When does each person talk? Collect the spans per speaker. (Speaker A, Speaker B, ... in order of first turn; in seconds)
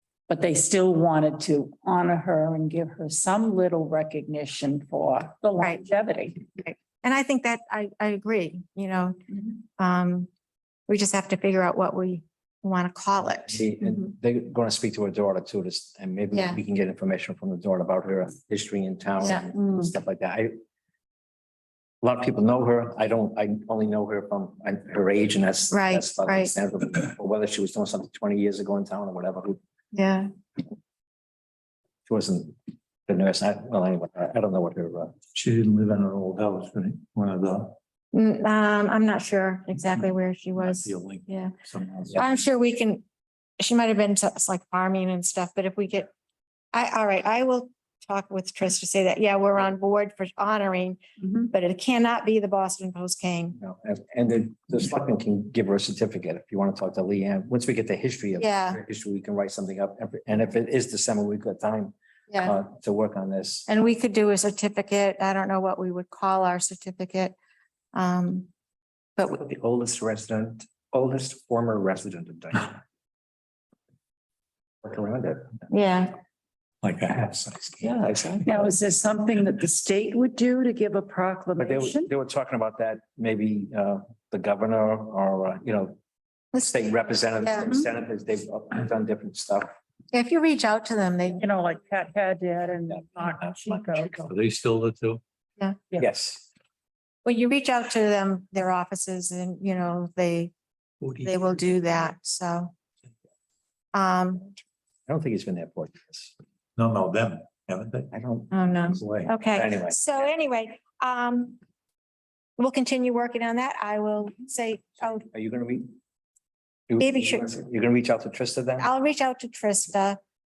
Speaker A: 0.3-6.4, 78.4-82.1, 91.3-94.2
Speaker B: 5.6-5.8, 6.5-10.3, 10.9-13.6, 16.3-16.6, 19.2-19.8, 25.7-26.5, 29.9-30.3, 38.1-41.5, 42.1-43.0, 43.6-46.1, 46.7-53.6, 58.4-58.8, 62.3-62.5, 63.7-67.3, 67.9-68.5, 75.7-76.1, 87.4-87.7, 90.1-91.4, 97.2-100.5, 101.2-102.7, 103.9-104.5, 108.5-111.6, 112.6-115.2, 117.0-117.5, 118.8-120.2
Speaker C: 13.5-20.5, 22.0-29.6, 32.1-32.5, 33.1-35.2, 53.6-63.7, 69.3-72.8, 74.8-75.6, 77.8-78.6, 81.6-86.0, 86.5-89.7, 92.9-94.2, 96.0-96.5, 105.1-106.3, 108.1-108.5, 109.5-110.3, 115.3-115.9, 116.9-118.9
Speaker D: 35.3-37.8, 40.6-42.3, 76.8-78.0, 94.2-95.2, 101.0-101.4, 106.8-108.1, 108.9-109.3